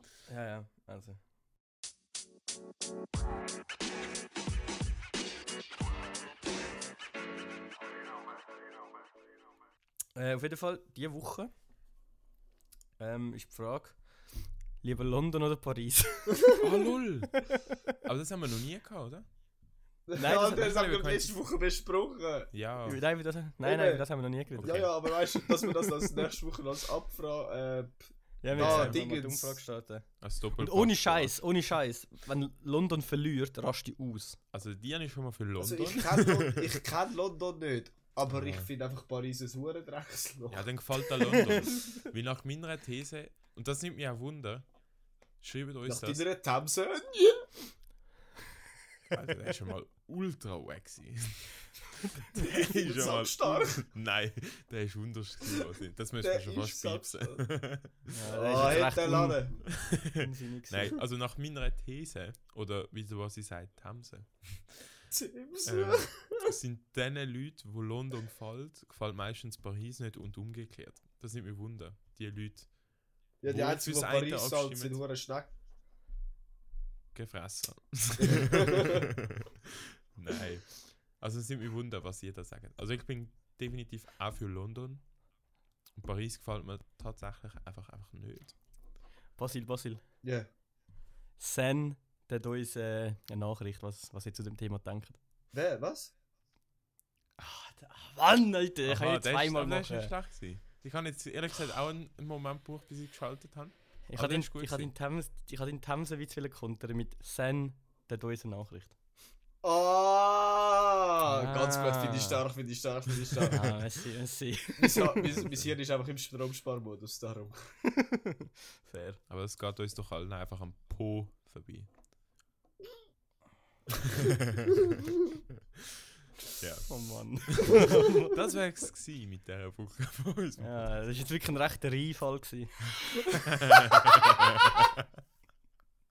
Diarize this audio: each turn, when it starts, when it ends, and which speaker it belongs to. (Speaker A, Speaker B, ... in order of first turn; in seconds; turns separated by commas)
Speaker A: 0.3-1.2, Speaker A: 10.1-11.5, Speaker A: 13.0-14.0, Speaker A: 14.8-16.6, Speaker B: 16.4-16.7, Speaker C: 16.6-17.5, Speaker A: 17.5-17.9, Speaker C: 18.0-19.2, Speaker B: 20.1-22.5, Speaker A: 20.1-21.3, Speaker C: 22.5-23.0, Speaker A: 22.9-26.2, Speaker B: 23.6-24.0, Speaker C: 24.6-24.9, Speaker B: 24.6-29.6, Speaker A: 28.4-30.1, Speaker C: 28.5-29.0, Speaker C: 30.2-31.4, Speaker A: 30.6-34.4, Speaker C: 34.5-36.8, Speaker B: 35.6-40.7, Speaker C: 38.3-38.7, Speaker C: 40.5-44.6, Speaker A: 41.2-41.7, Speaker C: 45.4-46.2, Speaker B: 45.8-47.5, Speaker C: 49.1-58.8, Speaker B: 52.3-53.8, Speaker B: 56.2-57.4, Speaker A: 58.1-61.0, Speaker B: 58.3-59.6, Speaker C: 59.6-64.9, Speaker B: 65.1-66.5, Speaker C: 65.6-72.7, Speaker B: 73.4-75.5, Speaker C: 73.4-75.0, Speaker C: 77.1-85.0, Speaker B: 78.2-79.0, Speaker C: 86.0-88.5, Speaker A: 89.4-90.0, Speaker B: 90.2-90.5, Speaker A: 91.4-95.2, Speaker B: 95.5-96.1, Speaker A: 97.4-100.1, Speaker C: 98.8-104.9, Speaker A: 104.1-108.9, Speaker B: 109.6-113.8, Speaker A: 111.3-112.4, Speaker A: 113.5-115.4, Speaker B: 114.8-117.7, Speaker C: 115.4-115.7, Speaker A: 117.9-119.2, Speaker C: 119.3-121.9, Speaker C: 124.0-124.8, Speaker C: 126.6-130.9, Speaker A: 126.9-128.3, Speaker A: 130.6-133.0, Speaker C: 133.5-134.9